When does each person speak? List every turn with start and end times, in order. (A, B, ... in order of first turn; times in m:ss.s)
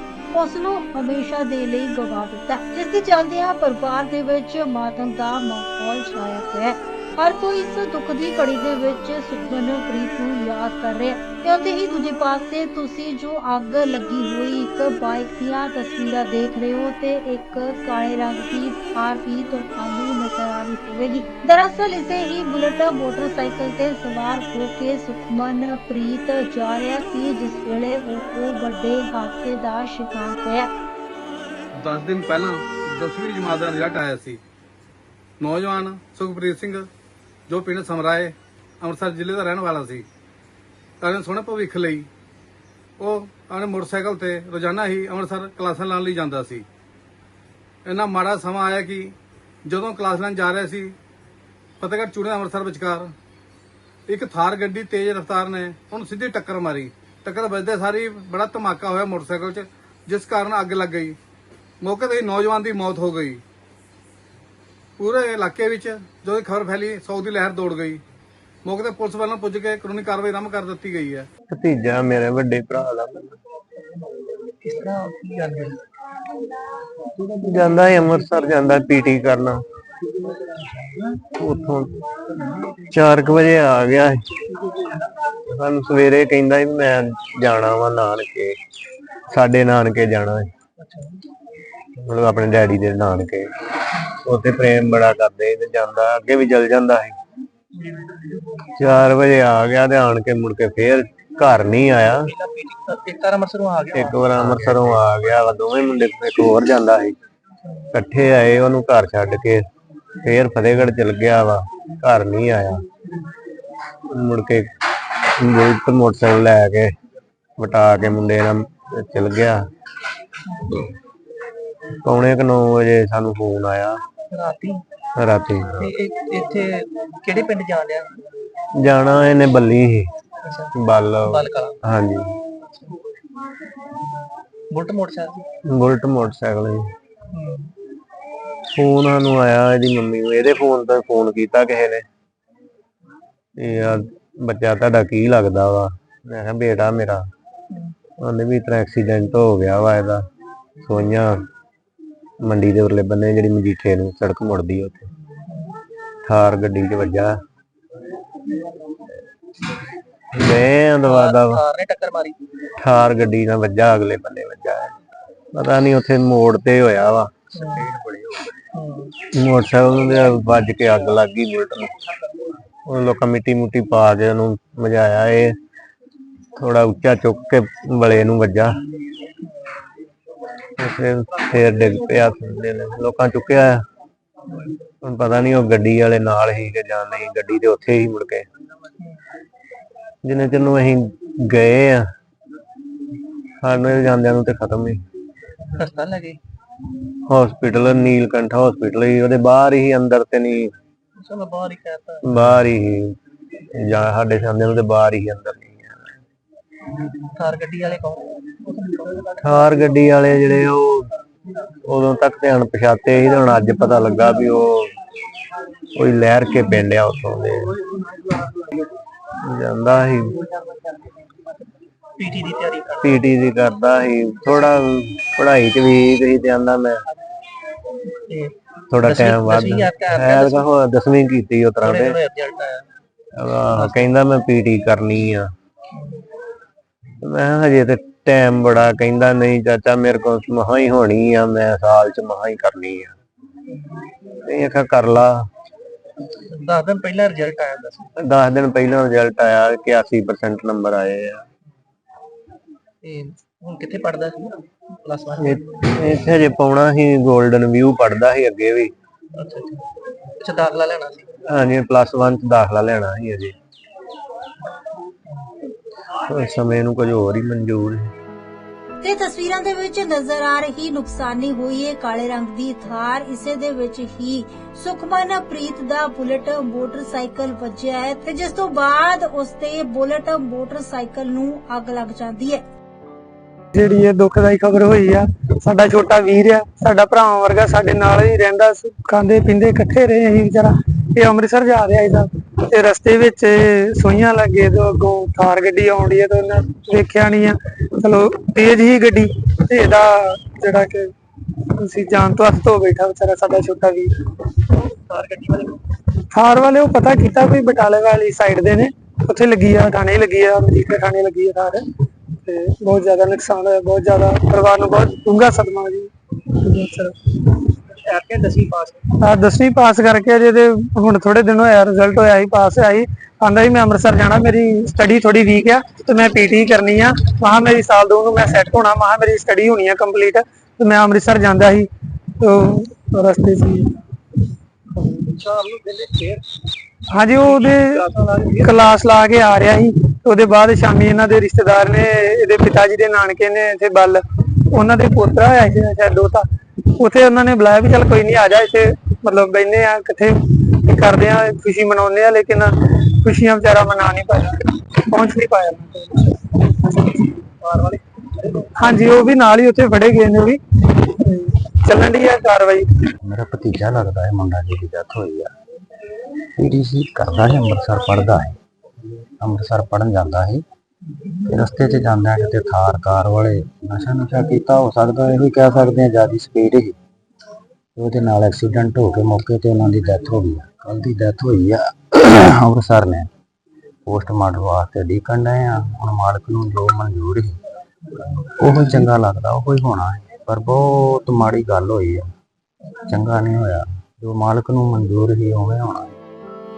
0:00.3-0:30.7 A
0:31.8-0:34.4 B
0:35.4-0:36.9 B
0:37.5-0:40.0 B
0:41.0-0:42.1 B
0:43.0-0:46.6 B
0:47.8-0:49.2 B
0:49.6-0:51.0 B
0:51.8-0:53.1 B
0:54.1-1:01.2 B
1:01.8-1:03.4 B
1:05.0-1:08.0 B
1:08.6-1:11.3 B
1:11.5-1:13.4 C
1:14.6-1:15.8 D
1:17.2-1:19.6 C
1:20.8-1:21.2 D
1:21.2-1:22.0 C
1:22.9-1:24.2 C
1:25.5-1:28.6 C
1:29.3-1:30.5 C
1:30.8-1:31.2 D
1:32.0-1:37.2 C
1:38.8-1:42.3 C
1:42.2-1:45.2 D
1:43.9-1:47.2 C
1:47.9-1:49.6 C
1:50.2-1:52.8 C
1:54.1-1:54.7 C
1:55.4-1:56.9 C
1:57.6-1:59.6 C
2:02.0-2:04.0 C
2:04.3-2:04.8 D
2:05.2-2:05.8 C
2:05.8-2:08.2 D
2:08.8-2:10.1 C
2:10.4-2:10.7 D
2:10.8-2:12.4 C
2:11.2-2:11.8 D
2:12.6-2:12.9 D
2:14.7-2:15.5 D
2:15.7-2:16.8 C
2:17.3-2:17.7 D
2:18.7-2:22.0 C
2:23.6-2:27.2 C
2:28.2-2:30.2 C
2:30.8-2:31.4 C
2:32.4-2:35.1 C
2:36.2-2:37.3 C
2:40.3-2:41.6 C
2:41.0-2:42.4 D
2:42.8-2:44.9 C
2:45.5-2:48.5 C
2:47.5-2:47.9 D
2:48.7-2:49.1 D
2:49.3-2:51.9 C
2:52.9-2:55.6 C
2:56.6-2:58.7 C
3:00.8-3:03.8 C
3:05.0-3:08.5 C
3:10.2-3:12.1 C
3:13.6-3:15.0 C
3:15.8-3:16.4 D
3:17.3-3:20.7 C
3:21.2-3:22.2 D
3:22.2-3:23.2 C
3:23.8-3:26.1 C
3:27.3-3:29.2 D
3:29.3-3:31.1 C
3:31.8-3:34.9 C
3:35.9-3:37.8 C
3:39.4-3:40.4 C
3:42.2-3:43.3 D
3:43.0-3:47.0 C
3:48.3-3:50.7 D
3:48.9-3:52.2 C
3:51.8-3:52.9 D
3:53.4-3:55.5 C
3:53.7-3:54.1 D
3:57.2-4:03.2 C
4:04.4-4:05.5 C
4:06.5-4:08.1 D
4:08.2-4:11.4 C
4:13.0-4:16.1 D
4:15.4-4:18.9 C
4:19.3-4:19.8 D
4:20.4-4:21.3 D
4:21.5-4:23.6 C
4:26.2-4:28.0 C
4:29.0-4:42.6 A
4:43.7-5:01.1 E
5:01.7-5:04.1 E
5:04.9-5:05.7 D
5:06.3-5:17.6 E
5:18.1-5:19.0 D
5:19.2-5:31.9 E
5:32.4-5:33.9 E
5:37.1-5:46.4 E
5:47.0-5:57.3 E
5:58.8-6:03.0 E
6:03.2-6:05.5 F
6:06.6-6:08.6 F
6:09.4-6:10.6 F
6:11.4-6:17.0 F
6:18.0-6:23.3 F
6:24.1-6:27.6 F
6:28.6-6:32.2 F
6:33.1-6:36.2 F